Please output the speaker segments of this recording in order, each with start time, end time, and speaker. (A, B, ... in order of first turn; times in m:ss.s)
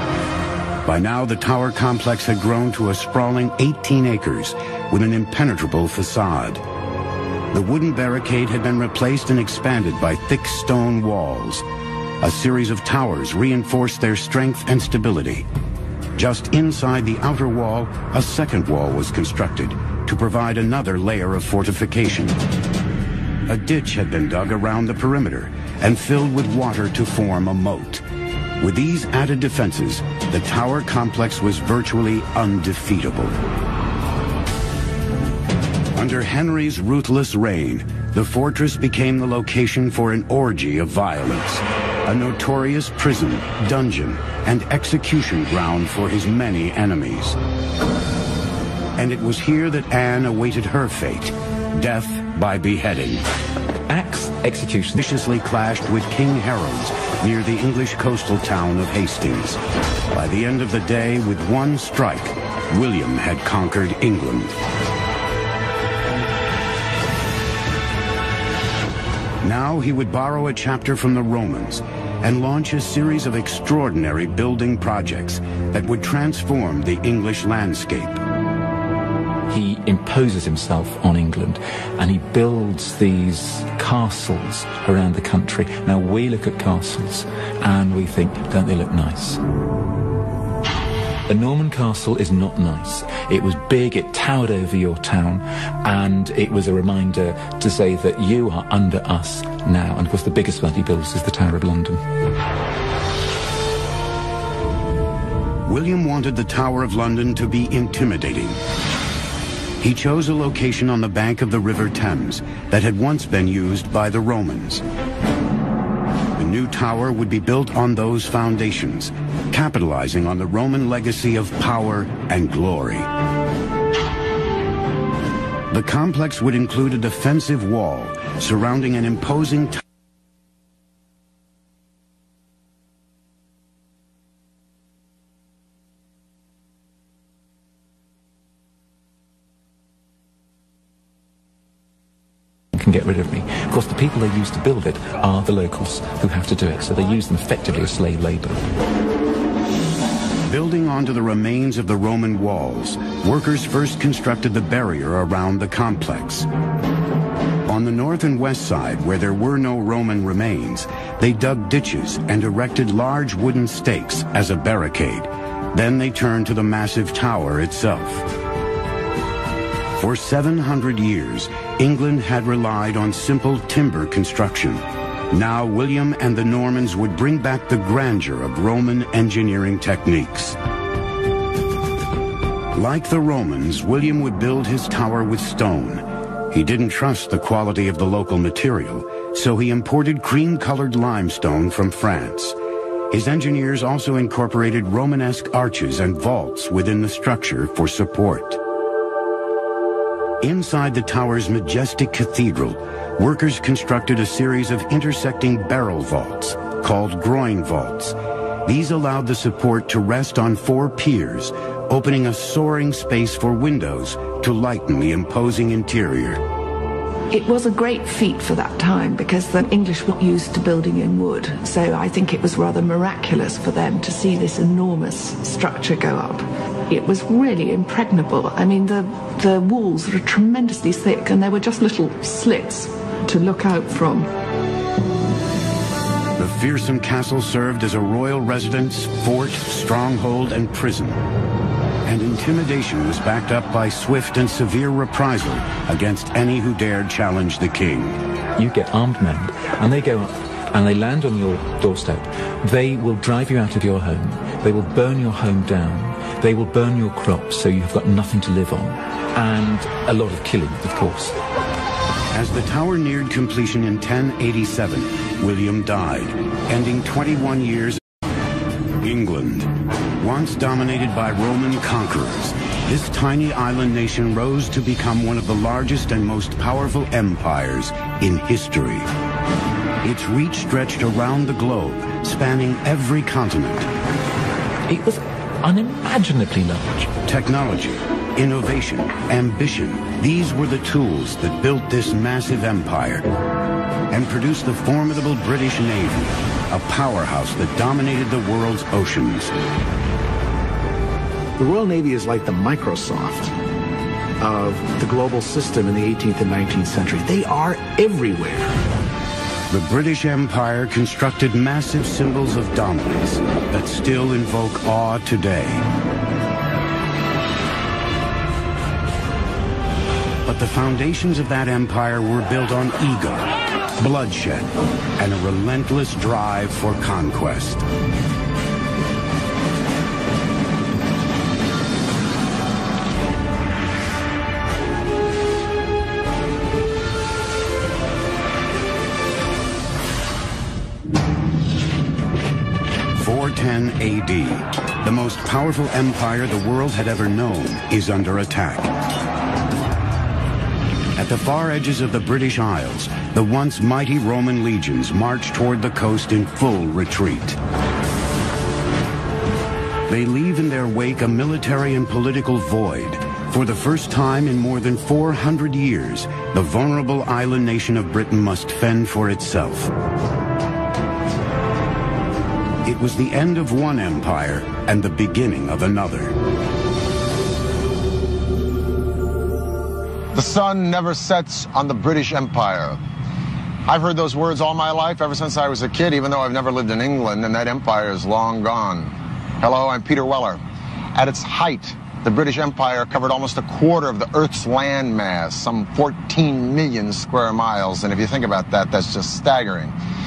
0:00.8-0:06.6 A
0:07.5-0:11.6 A
0:12.2-0:15.4 A
0:16.2-0:22.4 A
0:23.5-0:28.0 A
0:28.6-0:33.4 A
0:36.0-0:47.4 A
0:49.0-0:53.2 A
0:53.9-0:55.0 B
0:55.0-0:59.6 A
1:00.1-1:04.6 A
1:09.4-1:18.2 A
1:19.5-1:29.4 B
1:31.3-1:42.0 B
1:45.6-1:48.6 A
1:49.8-1:54.8 A
1:56.4-2:03.1 A
2:05.7-2:09.8 A
2:22.7-2:28.6 B
2:30.5-2:36.5 A
2:37.7-2:48.2 A
2:50.0-3:00.6 A
3:02.7-3:12.6 A
3:13.1-3:18.6 A
3:20.4-3:36.4 A
3:37.3-3:54.3 C
3:56.4-4:01.2 A
4:02.0-4:08.2 A
4:08.6-4:21.4 B
4:22.3-4:28.0 A
4:29.0-4:39.1 A
4:40.0-4:43.9 A
4:44.9-4:47.1 B
4:47.3-4:53.3 A
4:54.1-4:59.5 A
5:01.6-5:03.5 D
5:04.4-5:08.8 D
5:09.7-5:15.8 A
5:20.4-5:24.7 A
5:25.2-5:27.8 A
5:43.2-5:48.9 A
5:51.2-5:57.6 A
6:00.1-6:09.9 A
6:12.8-6:16.3 A
6:20.3-6:23.0 E
6:23.9-6:30.6 E
6:31.1-6:40.0 E